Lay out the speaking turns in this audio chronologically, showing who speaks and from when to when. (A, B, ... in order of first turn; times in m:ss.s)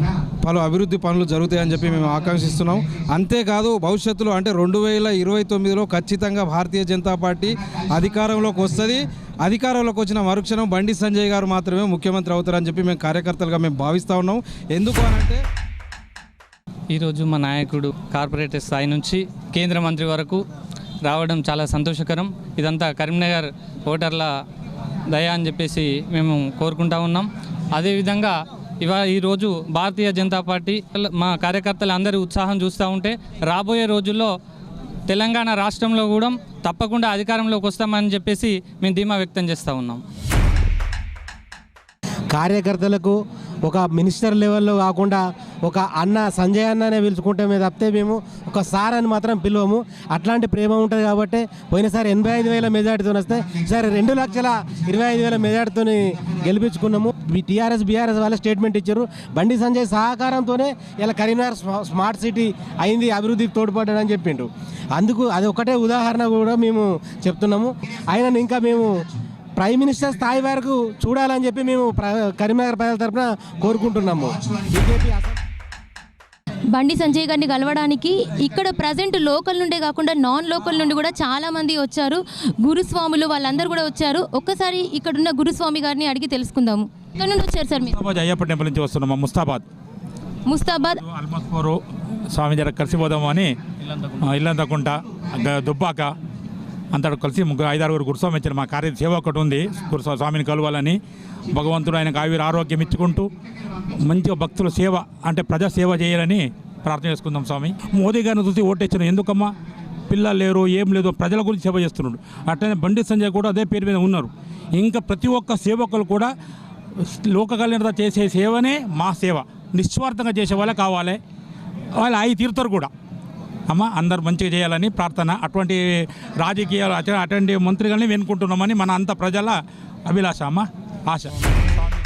0:00.4-0:15.4 A
0:16.9-0:20.4 B
0:21.0-0:24.3 B
0:25.1-0:34.3 B
0:35.1-0:40.0 B
0:42.3-1:08.9 C
1:09.6-1:15.4 C
1:16.7-1:28.0 D
1:27.9-1:29.6 E
1:30.5-1:31.0 D
1:31.0-1:31.8 E
1:32.3-1:33.5 E
1:34.2-1:36.1 E
1:36.9-1:41.0 E
1:41.5-1:43.2 E
1:44.1-1:49.5 E
1:50.1-1:56.3 E
1:57.3-2:01.2 E
2:02.0-2:02.9 E
2:03.7-2:05.8 E
2:06.4-2:09.6 E
2:10.1-2:11.3 E